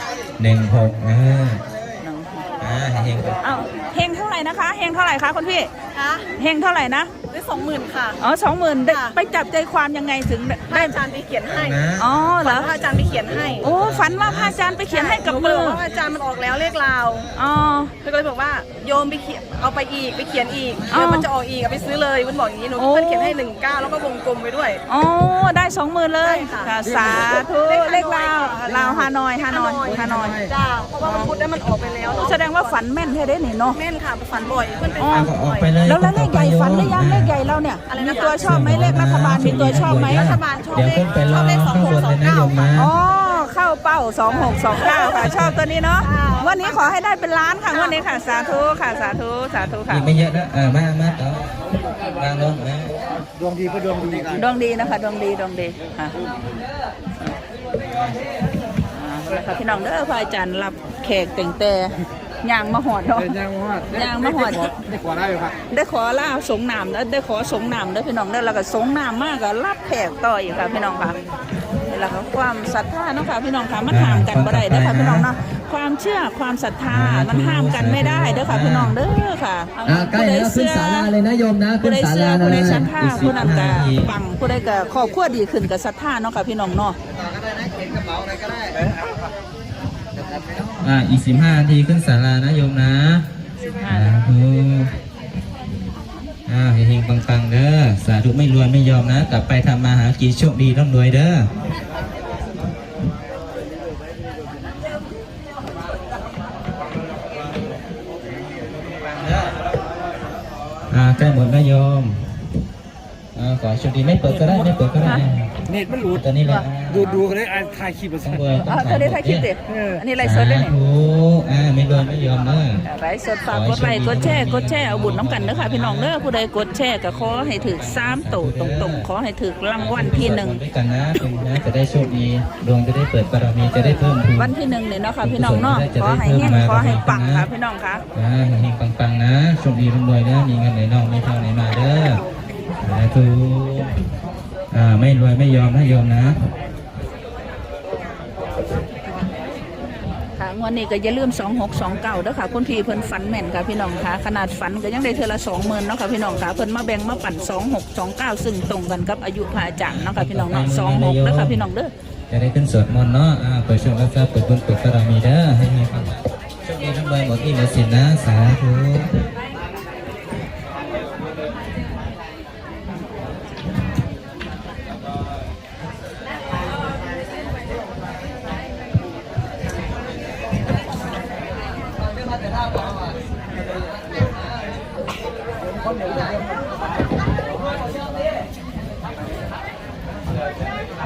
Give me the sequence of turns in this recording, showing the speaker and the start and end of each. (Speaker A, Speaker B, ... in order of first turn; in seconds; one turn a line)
Speaker A: 0.4-1.6
Speaker B: 2.0-2.5
Speaker A: 2.6-3.4
Speaker B: 3.4-5.7
Speaker C: 5.9-6.3
Speaker B: 6.4-7.1
Speaker C: 7.3-8.2
Speaker B: 8.2-11.0
Speaker C: 8.9-9.1
Speaker C: 10.7-11.8
Speaker A: 11.5-12.1
Speaker B: 12.0-12.7
Speaker C: 12.4-13.7
Speaker A: 13.1-14.8
Speaker B: 13.6-15.8
Speaker C: 14.9-17.3
Speaker B: 17.3-17.9
Speaker C: 18.0-24.8
Speaker B: 20.9-21.3
Speaker B: 22.8-23.3
Speaker B: 24.9-30.4
Speaker C: 26.2-32.8
Speaker B: 31.0-31.3
Speaker B: 32.1-33.8
Speaker C: 33.7-35.7
Speaker B: 35.0-40.3
Speaker A: 35.0-37.3
Speaker C: 37.9-38.6
Speaker A: 38.4-42.9
Speaker C: 40.0-42.9
Speaker B: 42.7-50.0
Speaker C: 44.4-45.2
Speaker A: 45.2-45.6
Speaker C: 46.0-46.8
Speaker C: 47.7-48.0
Speaker A: 49.9-53.0
Speaker D: 53.4-54.4
Speaker B: 54.3-56.2
Speaker B: 58.9-61.9
Speaker B: 62.4-63.4
Speaker D: 63.2-65.5
Speaker B: 63.9-64.8
Speaker B: 65.7-71.2
Speaker B: 71.8-81.1
Speaker A: 73.9-75.3
Speaker A: 76.9-79.0
Speaker E: 79.8-82.9
Speaker B: 81.7-87.0
Speaker A: 82.3-84.1
Speaker A: 90.8-93.2
Speaker B: 93.6-94.2
Speaker A: 93.9-94.9
Speaker A: 96.5-101.5
Speaker A: 109.1-109.5
Speaker A: 110.9-112.5
Speaker A: 113.3-115.6
Speaker D: 114.3-114.7
Speaker D: 115.7-118.5
Speaker A: 116.1-117.3
Speaker A: 118.2-119.5
Speaker B: 118.6-120.8
Speaker D: 119.7-120.0
Speaker A: 120.2-122.8
Speaker B: 122.8-130.6
Speaker A: 123.5-126.1
Speaker A: 127.0-129.1
Speaker A: 129.8-134.5
Speaker B: 133.7-138.0
Speaker A: 135.2-137.5
Speaker A: 138.1-142.2
Speaker A: 142.8-143.9
Speaker A: 144.7-146.4
Speaker B: 150.3-161.9
Speaker A: 159.8-161.6
Speaker A: 162.3-169.1